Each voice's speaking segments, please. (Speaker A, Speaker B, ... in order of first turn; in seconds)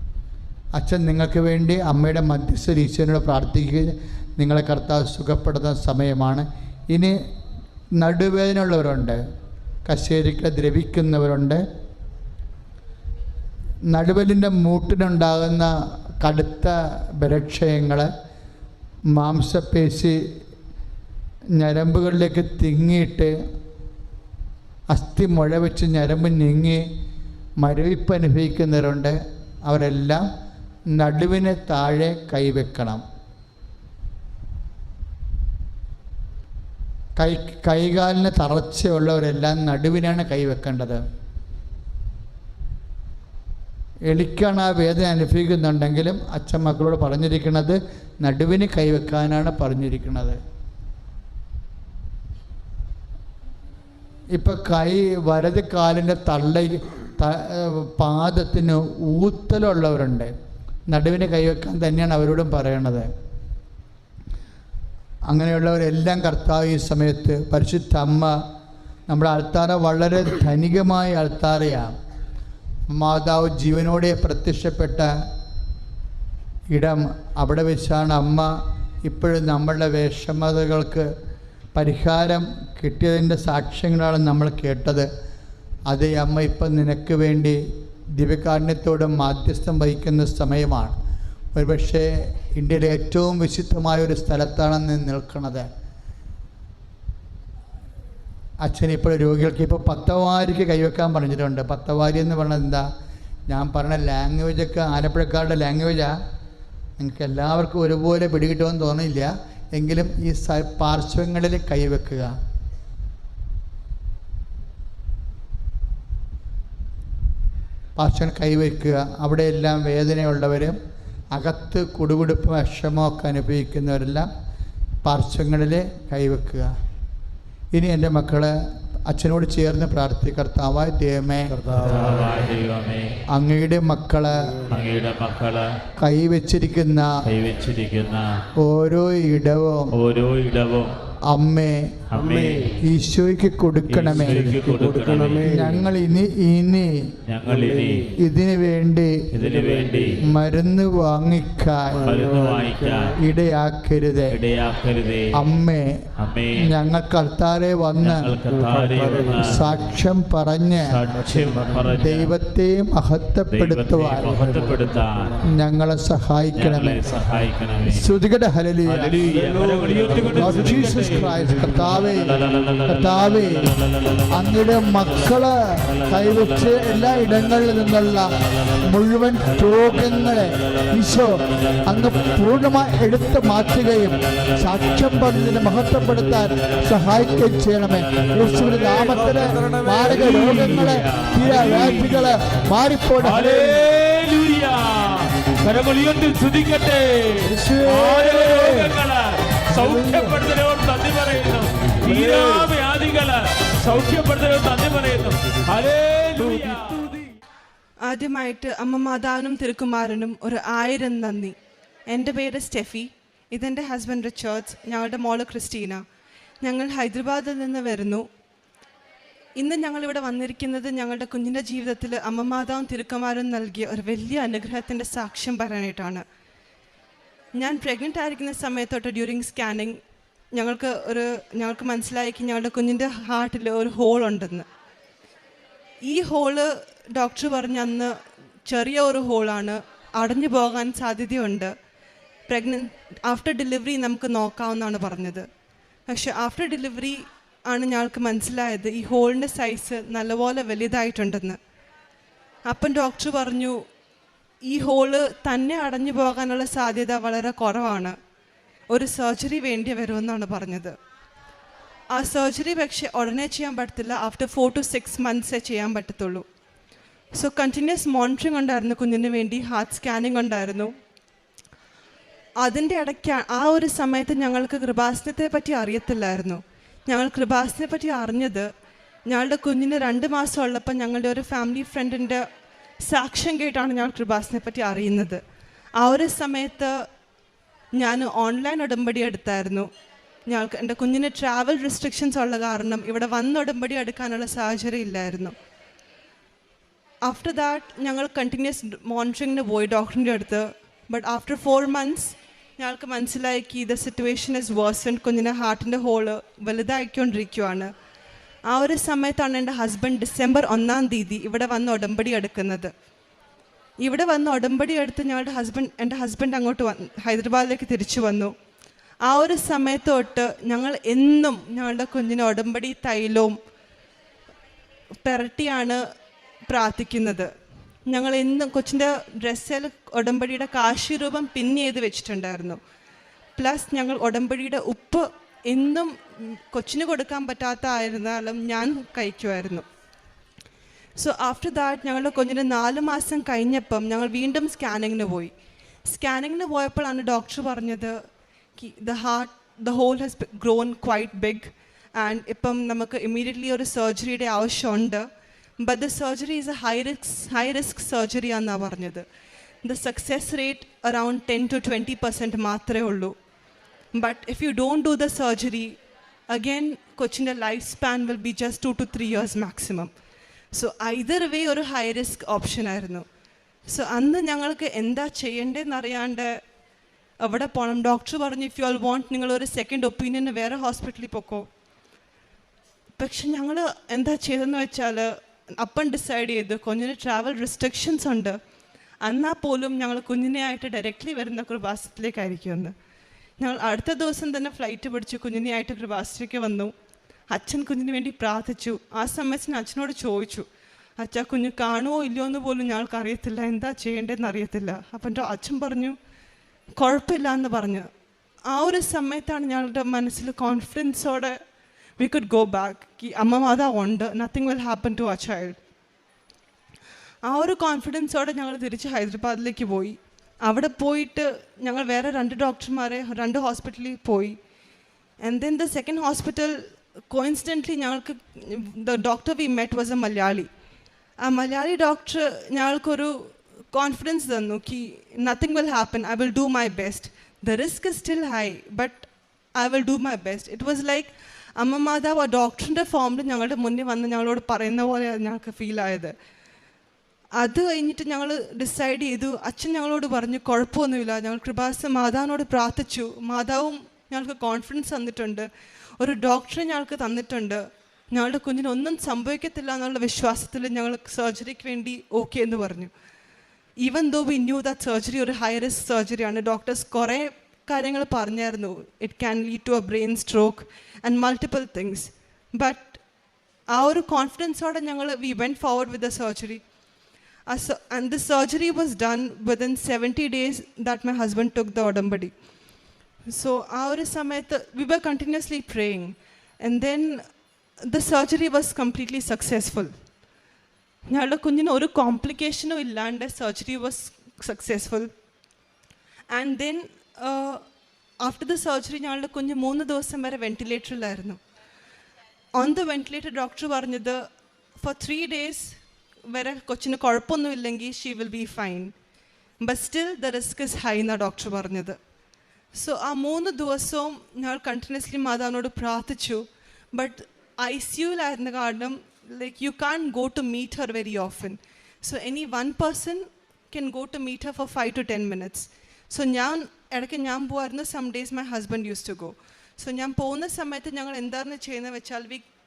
Speaker A: 0.8-7.2, 8.0-9.2, 9.9-11.6, 13.9-18.1, 19.1-20.2, 21.6-23.3, 24.9-26.8, 27.6-30.2, 30.9-33.0, 37.2-41.0, 44.1-50.4, 54.3-60.3, 60.9-63.1, 65.3-68.4, 69.1-71.9, 72.9-75.1, 76.7-81.1, 81.7-85.1, 85.9-90.9, 91.5-95.7, 98.6-102.9, 103.5-106.2, 107.0-112.3, 118.0-120.8, 121.3-124.3, 125.0-126.7, 127.7-128.6, 129.1-131.8, 133.3-134.6, 136.0-137.1, 138.6-139.9, 141.3-142.0, 142.8-144.6, 145.4-147.1, 148.2-149.2, 150.2-152.1, 153.2-154.4, 155.3-156.1, 156.6-158.4, 159.4-160.9, 162.0-164.3, 165.5-167.0, 167.9-169.3, 170.3-173.7, 174.3-178.3, 178.9-193.7
Speaker B: 131.7-133.1, 134.7-135.7, 137.2-138.4, 139.9-140.9, 142.1-142.8, 143.9-145.7, 147.3-148.2, 149.3-150.2, 152.0-153.2, 154.3-155.3, 156.2-156.7, 158.0-159.7, 160.8-162.3, 163.5-165.4, 166.6-168.1, 168.8-173.1, 189.3-192.3, 193.2-207.1
Speaker C: 208.0-211.5, 212.1-216.0, 216.6-218.2, 219.6-226.2, 227.6-230.0, 230.5-234.7, 236.0-238.1, 238.7-241.7, 242.5-245.5, 246.1-251.6, 252.7-253.8, 254.6-258.1, 258.9-260.9, 262.1-266.4, 267.3-270.9, 272.6-278.7, 279.3-282.4, 283.0-285.4, 286.0-287.0, 287.9-289.9, 290.5-295.5, 297.2-307.9, 308.7-312.9, 314.0-318.5, 319.2-323.6, 325.2-326.0, 326.7-327.5, 328.1-332.8, 333.6-339.9, 341.2-345.5, 346.0-348.2, 348.8-355.2, 355.8-359.2, 359.8-363.3, 364.1-365.9, 366.5-370.1, 370.7-373.2, 373.9-376.6, 377.4-381.7, 383.2-388.6, 389.2-392.9, 393.6-396.9, 397.5-400.6, 401.2-406.1, 407.0-408.1, 408.7-411.6, 412.2-415.8, 417.4-424.6, 425.4-430.7, 431.4-446.3, 447.6-455.7, 456.2-463.1, 464.0-473.2, 473.9-476.8, 477.7-482.5, 483.5-487.4, 488.1-490.1, 491.3-495.3, 496.5-497.8, 498.4-501.6, 502.8-504.4, 505.0-506.0, 506.5-509.1, 509.8-512.2, 512.9-532.6